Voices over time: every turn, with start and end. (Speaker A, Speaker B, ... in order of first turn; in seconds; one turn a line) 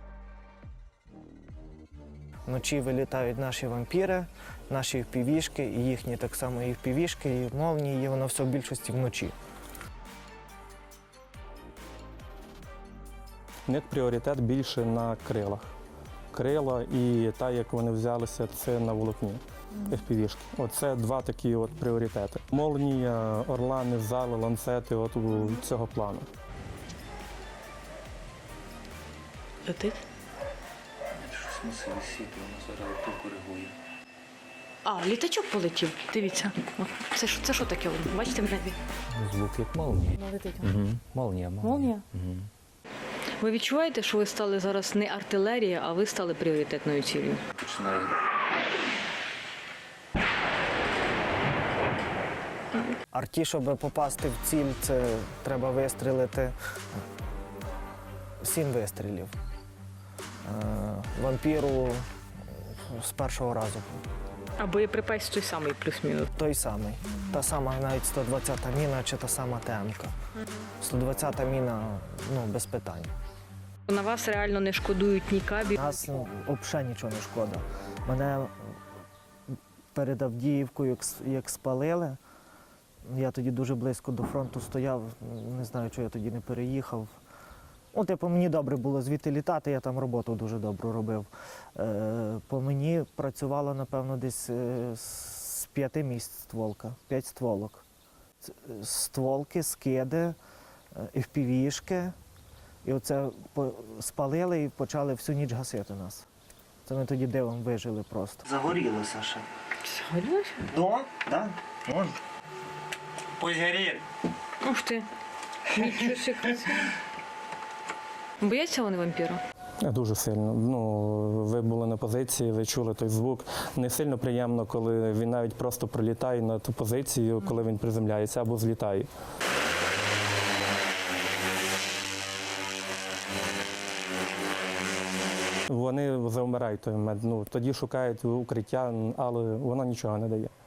Speaker A: 2.5-9.3
Speaker B: 13.7-15.7
Speaker B: 16.3-26.3
Speaker C: 29.6-30.0
Speaker D: 31.2-33.7
Speaker C: 34.8-38.8
Speaker D: 39.1-42.5
Speaker C: 40.2-40.7
Speaker C: 41.6-42.0
Speaker C: 43.4-47.4
Speaker D: 47.6-48.1
Speaker A: 53.1-56.5
Speaker A: 58.4-59.3
Speaker A: 60.4-62.1
Speaker A: 62.9-64.0
Speaker C: 64.6-66.3
Speaker A: 66.3-70.1
Speaker C: 70.4-70.7
Speaker A: 70.8-73.1
Speaker C: 73.9-76.2
Speaker A: 75.8-78.5
Speaker A: 79.9-82.2
Speaker A: 83.1-87.1
Speaker A: 87.9-97.8
Speaker A: 98.4-100.4
Speaker A: 101.0-102.1
Speaker A: 102.8-106.3
Speaker A: 106.9-109.5
Speaker C: 109.9-110.7
Speaker A: 110.7-112.1
Speaker A: 113.4-114.0
Speaker C: 114.6-115.1
Speaker C: 115.7-116.9
Speaker C: 118.4-119.4
Speaker B: 119.9-129.1
Speaker B: 135.7-140.5